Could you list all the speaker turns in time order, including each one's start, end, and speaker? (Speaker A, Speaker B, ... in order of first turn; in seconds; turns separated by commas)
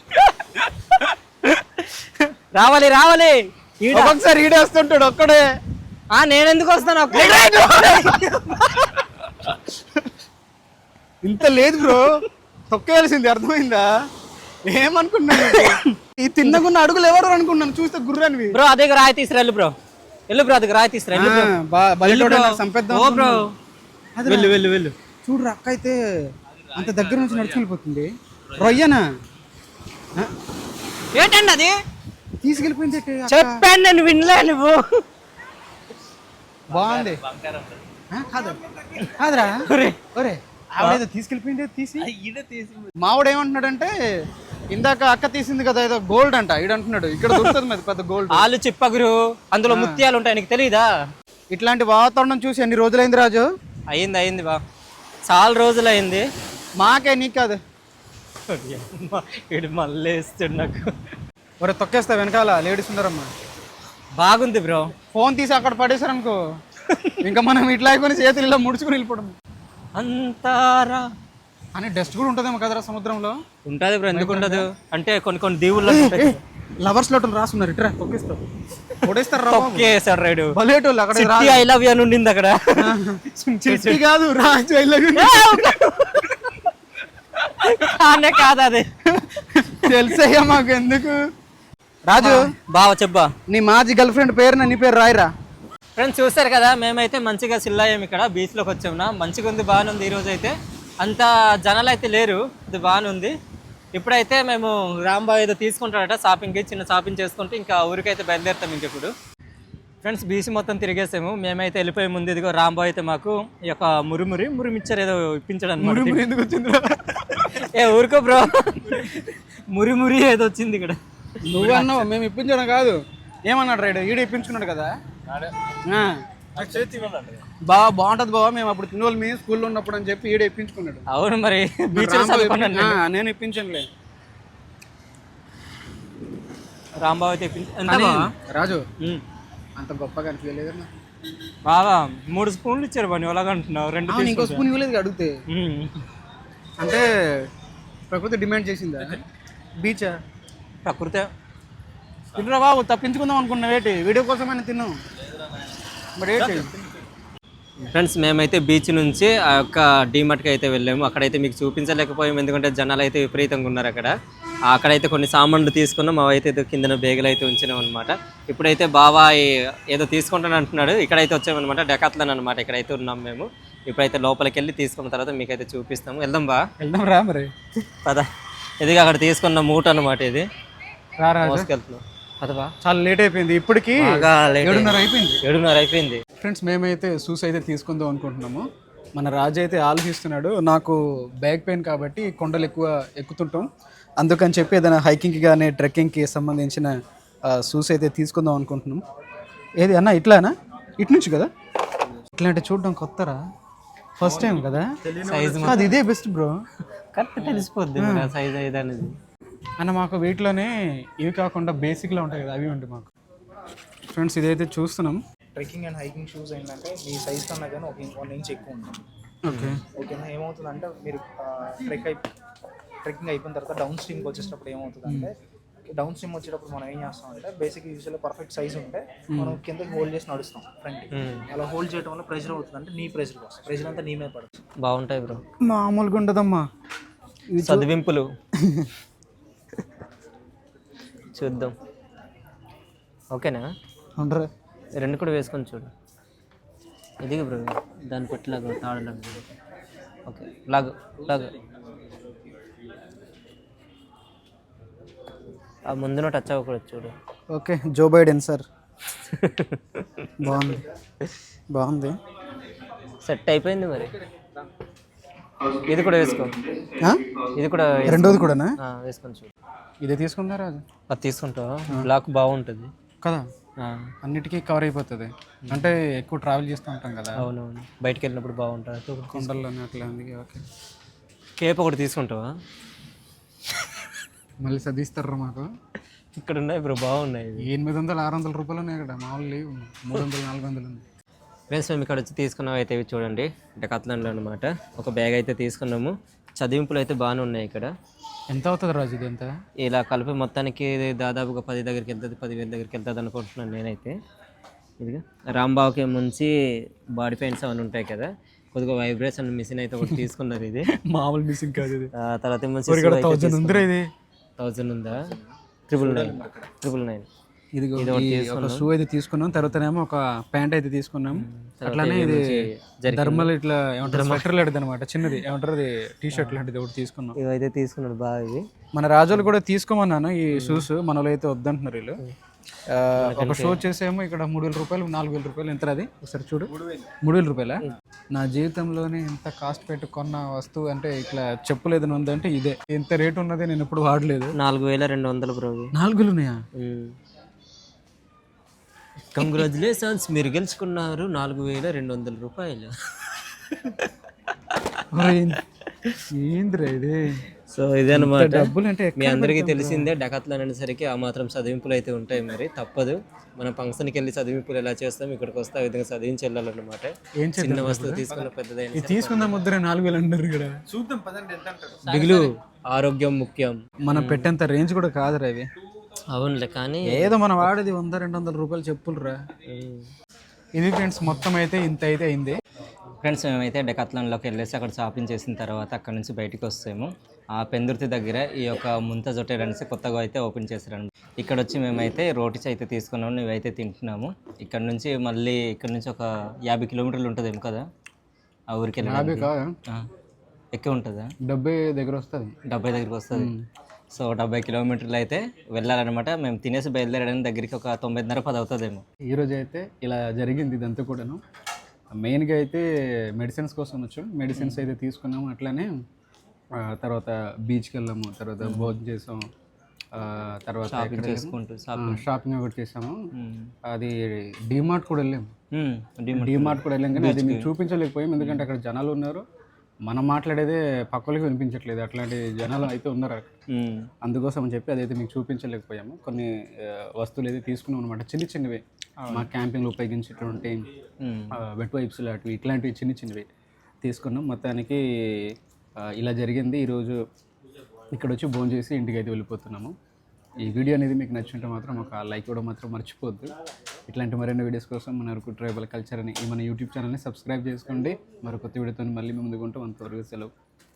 Speaker A: 2.5-4.2, Speaker B: 3.9-5.4, Speaker A: 6.1-8.9, Speaker B: 7.1-8.9, Speaker B: 11.2-13.9, Speaker A: 11.7-12.0, Speaker B: 14.7-18.6, Speaker A: 15.3-16.6, Speaker A: 18.5-19.7, Speaker A: 20.3-23.5, Speaker B: 21.1-23.4, Speaker B: 24.2-24.6, Speaker A: 24.2-24.9, Speaker B: 25.2-26.0, Speaker B: 26.7-29.0, Speaker A: 26.8-27.6, Speaker A: 28.5-28.8, Speaker A: 31.1-31.8, Speaker B: 32.4-33.6, Speaker A: 33.3-34.8, Speaker B: 36.7-37.2, Speaker A: 36.7-37.7, Speaker B: 38.1-38.6, Speaker A: 38.5-40.0, Speaker B: 39.2-39.6, Speaker B: 40.1-42.1, Speaker A: 42.0-42.9, Speaker B: 43.0-43.9, Speaker B: 44.7-48.5, Speaker A: 47.3-47.6, Speaker A: 48.3-50.8, Speaker B: 49.7-50.0, Speaker B: 51.5-53.4, Speaker A: 53.9-54.6, Speaker A: 55.2-56.2, Speaker B: 56.8-57.6, Speaker A: 58.5-60.9, Speaker B: 61.6-63.3, Speaker A: 64.2-64.9, Speaker B: 65.1-66.4, Speaker A: 66.8-67.3, Speaker B: 67.2-69.3, Speaker A: 70.0-71.1, Speaker B: 71.7-73.3, Speaker A: 73.6-76.4, Speaker B: 74.1-74.7, Speaker B: 75.8-78.4, Speaker A: 78.9-80.5, Speaker B: 79.0-79.9, Speaker B: 80.5-81.7, Speaker A: 81.1-84.0, Speaker B: 82.8-85.7, Speaker A: 85.2-86.7, Speaker A: 87.4-88.9, Speaker B: 89.2-91.2, Speaker A: 89.8-90.2, Speaker B: 92.1-92.4, Speaker A: 92.2-93.3, Speaker B: 93.5-95.3, Speaker A: 96.0-103.3, Speaker A: 103.9-109.1, Speaker A: 110.0-116.2, Speaker B: 115.8-117.6, Speaker A: 117.5-122.1, Speaker B: 121.4-124.9, Speaker B: 125.8-126.1, Speaker A: 126.5-127.4, Speaker B: 127.6-131.0, Speaker A: 131.1-133.0, Speaker B: 131.9-133.9, Speaker A: 137.0-138.3, Speaker B: 137.8-138.8, Speaker B: 139.8-140.9, Speaker A: 141.6-144.7, Speaker B: 144.1-145.3, Speaker A: 145.5-146.0, Speaker B: 146.8-147.5, Speaker B: 148.1-149.2, Speaker B: 149.8-150.2, Speaker A: 150.8-151.3, Speaker B: 152.3-154.9, Speaker B: 156.2-156.7, Speaker A: 156.4-156.7, Speaker A: 157.9-164.1, Speaker A: 164.7-176.6, Speaker B: 176.8-177.5, Speaker A: 178.8-180.4, Speaker B: 181.2-181.7, Speaker A: 181.4-182.7, Speaker B: 182.8-185.4, Speaker A: 184.0-186.2, Speaker B: 186.4-193.7, Speaker B: 194.2-196.9, Speaker B: 197.5-199.0, Speaker B: 199.8-201.5, Speaker B: 202.3-203.4, Speaker B: 204.2-204.9, Speaker A: 205.2-205.9, Speaker B: 205.6-206.5, Speaker A: 207.1-209.1, Speaker B: 207.9-208.3, Speaker B: 209.8-213.1, Speaker B: 214.1-215.2, Speaker C: 215.6-219.0, Speaker B: 219.4-219.8, Speaker A: 219.5-219.8, Speaker C: 219.9-222.3, Speaker C: 223.0-225.3, Speaker C: 225.9-234.6, Speaker B: 229.3-229.6, Speaker A: 231.1-231.5, Speaker A: 234.8-235.4, Speaker B: 235.6-236.6, Speaker B: 237.5-237.9, Speaker A: 237.6-238.2, Speaker B: 238.6-238.9, Speaker A: 241.3-241.7, Speaker A: 243.3-243.7, Speaker B: 244.2-244.5, Speaker A: 245.0-245.9, Speaker A: 247.2-249.5, Speaker A: 250.3-251.5, Speaker A: 255.9-257.1, Speaker B: 257.5-258.6, Speaker A: 259.2-260.3, Speaker B: 260.4-260.9, Speaker B: 261.7-262.1, Speaker A: 263.2-264.1, Speaker A: 265.9-266.6, Speaker A: 267.5-269.5, Speaker B: 268.1-268.7, Speaker B: 270.0-270.8, Speaker A: 271.1-272.9, Speaker A: 273.8-274.1, Speaker B: 274.2-277.4, Speaker A: 275.6-275.9, Speaker A: 277.4-279.6, Speaker B: 279.3-280.6, Speaker A: 281.6-282.4, Speaker B: 284.6-285.7, Speaker A: 286.3-287.7, Speaker B: 287.6-291.0, Speaker A: 291.7-297.9, Speaker B: 298.5-299.5, Speaker A: 299.8-304.1, Speaker A: 305.0-306.5, Speaker A: 307.1-310.9, Speaker B: 311.1-312.1, Speaker A: 312.2-313.9, Speaker B: 312.9-314.1, Speaker A: 314.6-315.2, Speaker A: 315.9-317.3, Speaker B: 317.7-322.4, Speaker A: 318.0-318.9, Speaker A: 321.4-323.5, Speaker B: 323.1-327.4, Speaker A: 324.1-324.6, Speaker A: 326.3-326.6, Speaker A: 327.4-328.6, Speaker B: 328.9-332.2, Speaker A: 330.5-330.9, Speaker B: 332.9-336.7, Speaker A: 333.1-333.8, Speaker B: 337.2-337.8, Speaker B: 338.3-344.5, Speaker A: 344.6-345.9, Speaker B: 345.9-346.5, Speaker A: 346.8-347.1, Speaker A: 349.3-352.9, Speaker A: 353.7-354.1, Speaker A: 354.7-355.0, Speaker B: 355.1-355.6, Speaker A: 355.5-356.2, Speaker B: 356.3-357.4, Speaker A: 357.7-369.6, Speaker B: 358.1-360.1, Speaker B: 367.4-371.0, Speaker B: 371.9-372.5, Speaker A: 372.0-374.5, Speaker B: 374.1-375.6, Speaker A: 376.3-377.7, Speaker B: 377.1-379.4, Speaker A: 379.7-380.1, Speaker B: 380.7-382.5, Speaker A: 383.2-397.8, Speaker A: 398.7-400.1, Speaker B: 399.0-399.7, Speaker A: 400.7-401.3, Speaker B: 401.4-402.5, Speaker A: 402.7-403.5, Speaker B: 403.3-403.6, Speaker A: 404.1-409.0, Speaker B: 409.3-411.4, Speaker B: 412.2-415.9, Speaker A: 414.5-414.9, Speaker B: 416.8-419.4, Speaker A: 418.6-419.0, Speaker B: 420.1-423.2, Speaker A: 420.9-422.2, Speaker A: 423.3-423.7, Speaker B: 423.9-424.1, Speaker B: 424.7-425.5, Speaker A: 425.7-427.7, Speaker B: 426.3-429.4, Speaker A: 428.4-428.7, Speaker B: 430.1-433.5, Speaker A: 433.7-434.1, Speaker B: 434.2-440.8, Speaker A: 439.2-439.5, Speaker A: 441.2-441.5, Speaker B: 441.6-443.4, Speaker B: 444.0-445.5, Speaker B: 446.1-447.1, Speaker B: 448.1-449.9, Speaker B: 450.6-453.5, Speaker B: 454.1-460.5